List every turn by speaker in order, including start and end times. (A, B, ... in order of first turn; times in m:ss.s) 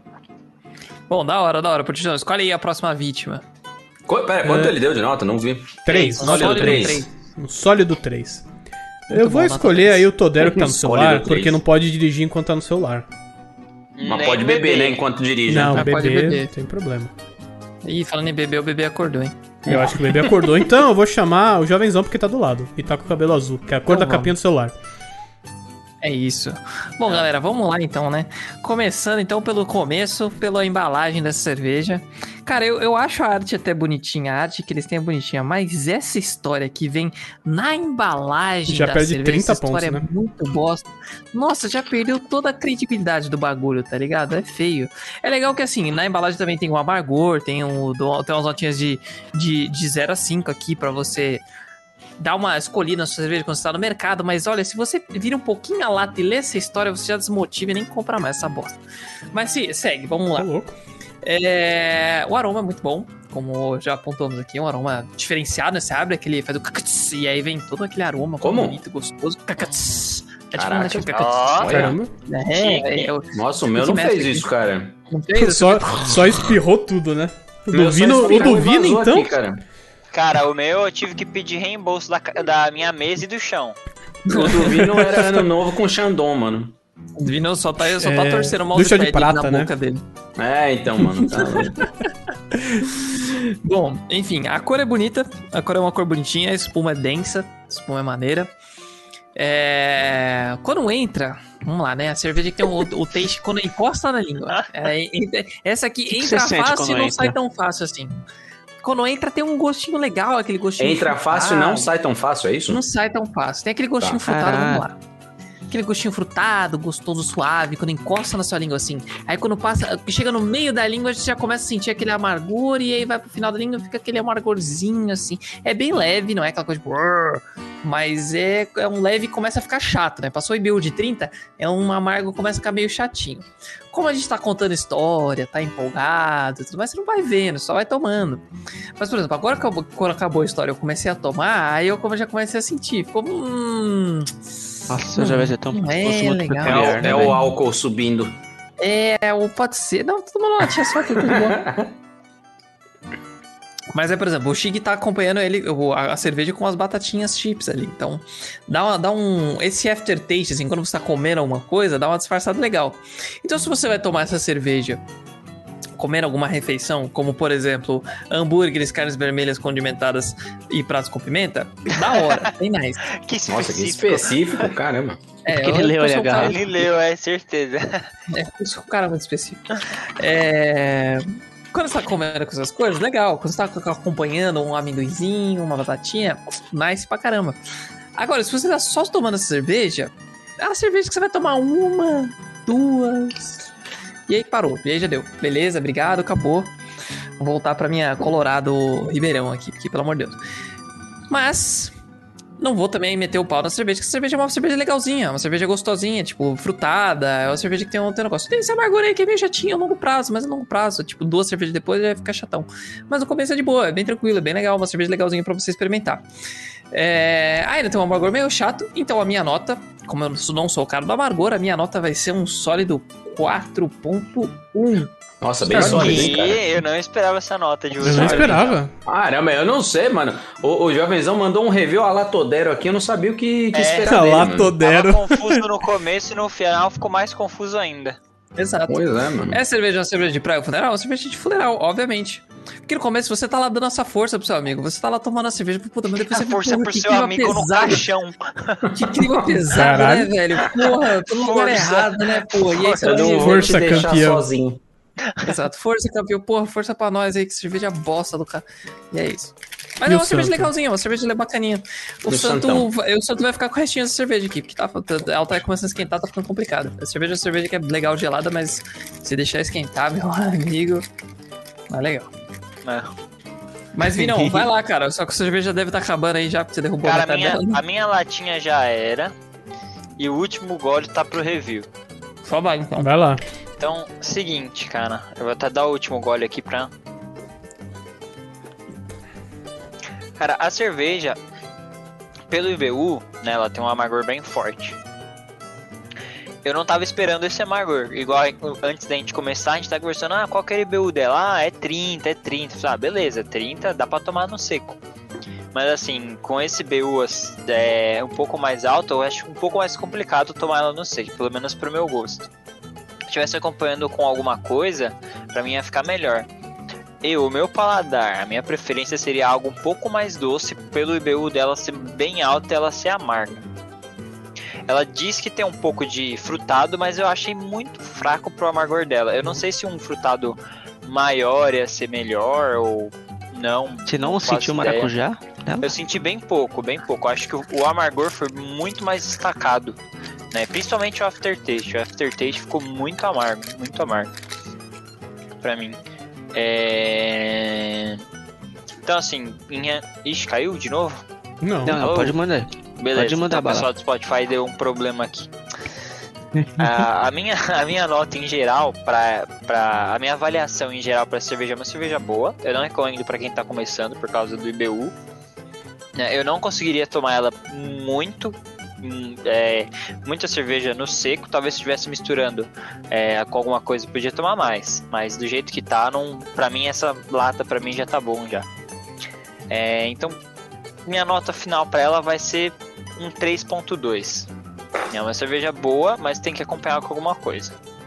0:01.1-0:03.4 A
0:04.1-0:07.0 B
0:04.4-0:04.8 C
0:05.8-0:08.4 C
0:05.9-0:07.1 A
0:09.1-0:13.1 C
0:09.1-0:10.1 A
0:10.4-0:11.6 B
0:14.0-0:15.0 D
0:14.1-0:15.9 B
0:15.5-0:17.1 C
0:15.7-0:16.5 A
0:17.8-0:19.4 A
0:19.7-0:20.5 B
0:19.7-0:24.8 C
0:23.9-0:24.4 A
0:26.0-0:51.4 A
0:38.7-0:40.1 C
0:52.2-0:58.8 A
0:59.3-1:00.5 A
1:00.4-1:00.8 C
1:01.2-1:14.5 A
1:08.4-1:08.8 B
1:10.6-1:12.0 B
1:11.1-1:11.9 D
1:11.6-1:12.1 C
1:12.6-1:13.1 D
1:13.3-1:15.0 B
1:15.1-1:16.2 A
1:15.4-1:19.4 C
1:17.7-1:19.6 B
1:18.1-1:18.6 A
1:20.1-1:23.8 D
1:24.3-1:24.8 A
1:24.3-1:26.7 B
1:24.7-1:25.4 C
1:27.2-1:30.0 A
1:27.8-1:29.7 C
1:30.4-1:31.8 B
1:31.2-1:31.8 A
1:32.8-1:38.5 A
1:39.4-1:48.2 A
1:46.1-1:47.4 E
1:48.8-1:51.9 A
1:50.8-1:52.8 B
1:52.7-1:55.0 A
1:54.3-1:54.9 E
1:55.7-2:18.4 A
2:19.0-2:24.3 A
2:24.9-2:27.4 E
2:25.1-2:27.3 A
2:26.6-2:28.4 B
2:28.8-2:31.7 A
2:31.3-2:31.9 B
2:33.9-2:45.0 A
2:46.0-2:53.1 A
2:52.1-2:52.4 D
2:53.2-2:54.7 D
2:53.5-2:55.2 B
2:55.4-2:56.6 A
2:55.5-2:56.6 E
2:56.2-2:58.1 D
2:58.3-2:59.6 A
3:00.2-3:07.6 A
3:08.2-3:13.6 A
3:14.3-3:16.7 A
3:17.4-3:20.4 A
3:21.3-3:22.0 A
3:22.6-3:36.2 A
3:36.9-3:45.1 A
3:45.4-3:46.6 B
3:45.7-3:46.3 A
3:45.7-3:48.8 D
3:48.0-3:48.9 C
3:48.0-3:54.7 B
3:53.7-3:54.2 D
3:54.1-3:55.6 C
3:54.8-3:58.2 D
3:58.6-4:08.0 A
3:58.9-3:59.6 B
4:06.3-4:08.9 D
4:08.9-4:13.8 A
4:09.7-4:10.3 C
4:11.3-4:13.3 D
4:13.0-4:14.8 B
4:13.3-4:14.5 C
4:15.4-4:31.0 A
4:20.1-4:20.7 C
4:22.3-4:22.9 B
4:31.9-4:32.3 A
4:32.8-4:33.1 D
4:33.9-4:37.8 A
4:34.2-4:34.6 E
4:37.0-4:39.3 D
4:40.2-4:41.9 D
4:42.4-4:43.1 A
4:43.0-4:43.4 C
4:43.8-4:46.9 D
4:50.4-4:51.4 D
4:52.5-4:55.0 D
4:56.6-5:05.0 D
5:05.7-5:12.5 D
5:13.3-5:16.5 D
5:17.2-5:23.6 D
5:24.9-5:35.1 D
5:34.1-5:35.9 E
5:35.8-5:40.0 D
5:40.5-5:44.3 D
5:45.6-5:46.0 D
5:46.5-5:48.2 D
5:49.0-5:51.2 D
5:51.6-5:52.0 C
5:51.8-5:53.9 E
5:51.9-5:52.4 D
5:53.0-5:55.5 D
5:56.8-6:05.1 D
6:06.2-6:18.7 D
6:19.7-6:20.4 D
6:21.1-6:24.5 D
6:25.1-6:27.8 D